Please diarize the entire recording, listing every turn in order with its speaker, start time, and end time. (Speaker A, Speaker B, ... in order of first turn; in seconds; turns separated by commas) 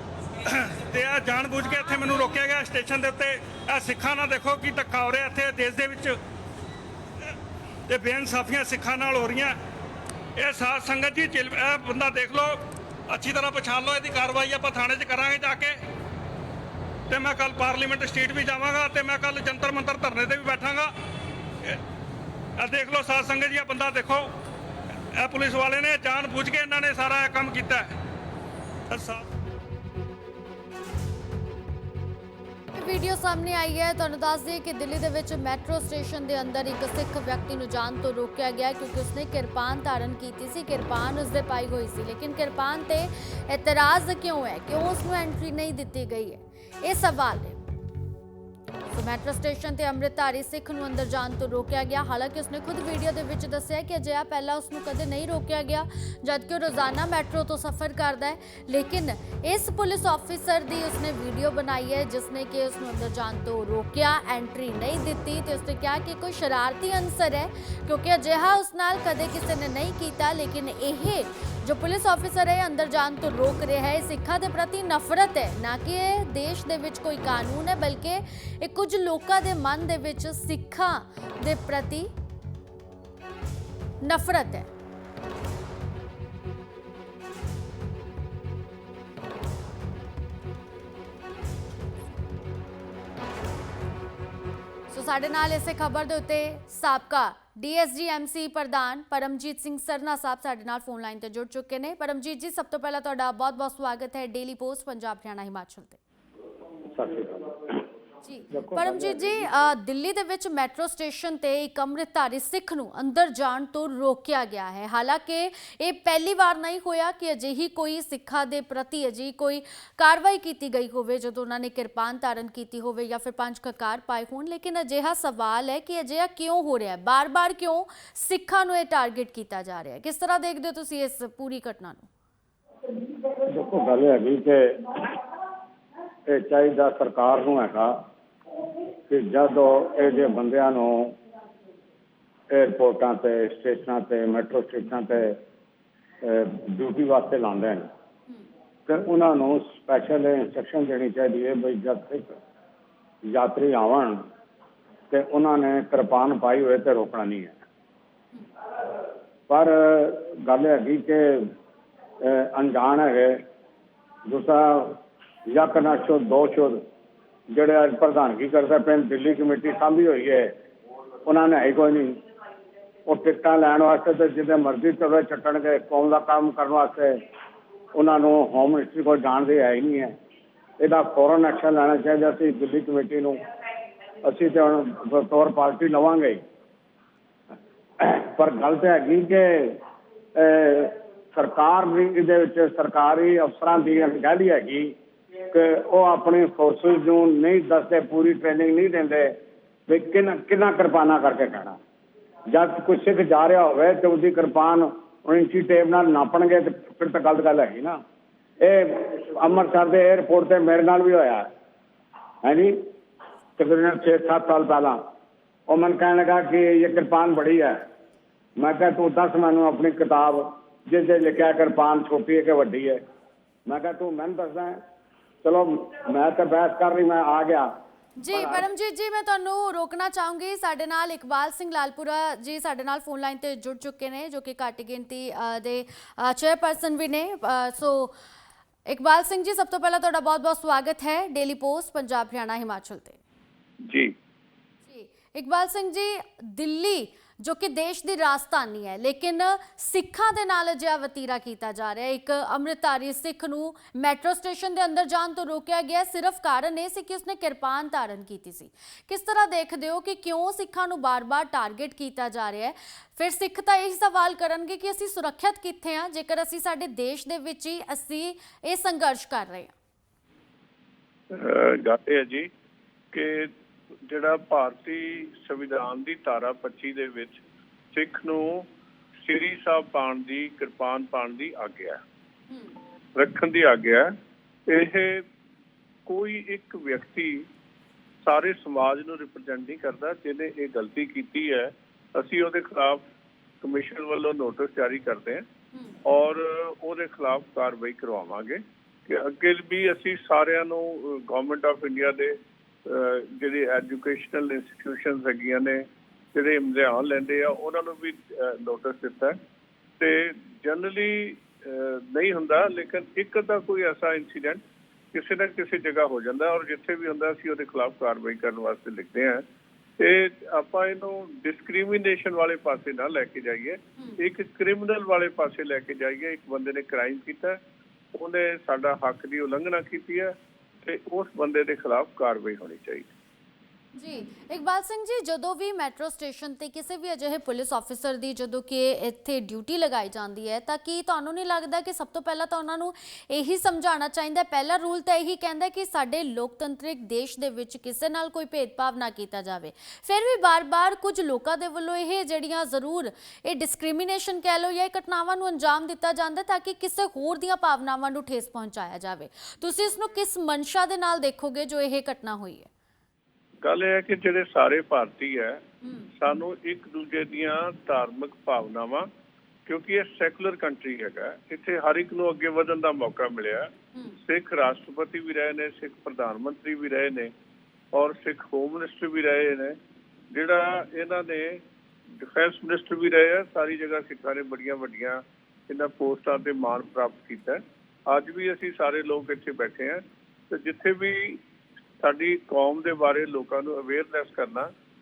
Speaker A: 0.4-6.2, Speaker B: 1.6-2.2, Speaker A: 7.9-9.6, Speaker A: 10.4-15.8, Speaker A: 17.1-20.9, Speaker A: 22.6-24.3, Speaker A: 25.1-27.9, Speaker A: 28.9-29.2, Speaker B: 32.7-47.6, Speaker B: 48.9-82.1, Speaker B: 84.0-84.7, Speaker B: 94.9-106.0, Speaker C: 106.9-107.6, Speaker B: 108.2-132.1, Speaker C: 108.5-109.5, Speaker C: 133.5-134.8, Speaker C: 136.3-137.9, Speaker C: 139.1-141.1, Speaker C: 142.5-145.4, Speaker C: 146.2-147.9, Speaker C: 148.9-152.3, Speaker C: 153.3-154.2, Speaker C: 155.1-157.6, Speaker C: 159.5-161.5, Speaker C: 162.2-163.4, Speaker C: 164.3-166.8, Speaker C: 167.5-170.5, Speaker C: 171.2-172.2, Speaker C: 173.1-177.2, Speaker C: 178.0-180.1, Speaker C: 180.8-183.4, Speaker C: 184.2-186.4, Speaker C: 188.0-189.8, Speaker C: 190.4-194.9, Speaker C: 195.5-199.3, Speaker C: 199.9-201.8, Speaker C: 202.5-208.0, Speaker C: 208.6-211.5, Speaker C: 212.4-212.7, Speaker C: 213.6-215.0, Speaker C: 215.7-217.8, Speaker C: 218.6-223.0, Speaker C: 223.7-224.8, Speaker C: 225.4-227.7, Speaker B: 228.2-238.1, Speaker C: 228.3-228.7, Speaker B: 238.9-243.2, Speaker B: 244.8-269.8, Speaker D: 271.3-272.5, Speaker D: 273.1-273.5, Speaker D: 274.1-277.4, Speaker D: 277.9-278.7, Speaker D: 279.2-282.0, Speaker D: 283.2-284.1, Speaker D: 284.7-285.2, Speaker D: 286.1-287.5, Speaker D: 288.2-293.0, Speaker D: 293.6-295.4, Speaker D: 296.0-302.3, Speaker D: 302.9-305.8, Speaker D: 306.3-309.4, Speaker D: 310.0-314.6, Speaker D: 315.1-319.4, Speaker D: 320.0-327.6, Speaker D: 328.1-330.3, Speaker D: 330.8-333.1, Speaker B: 333.9-362.7, Speaker D: 363.6-365.6, Speaker B: 365.8-366.1, Speaker D: 366.2-369.1, Speaker D: 369.6-373.7, Speaker D: 374.2-377.3, Speaker D: 377.9-379.8, Speaker D: 380.3-381.6, Speaker D: 382.2-391.4, Speaker D: 392.0-394.7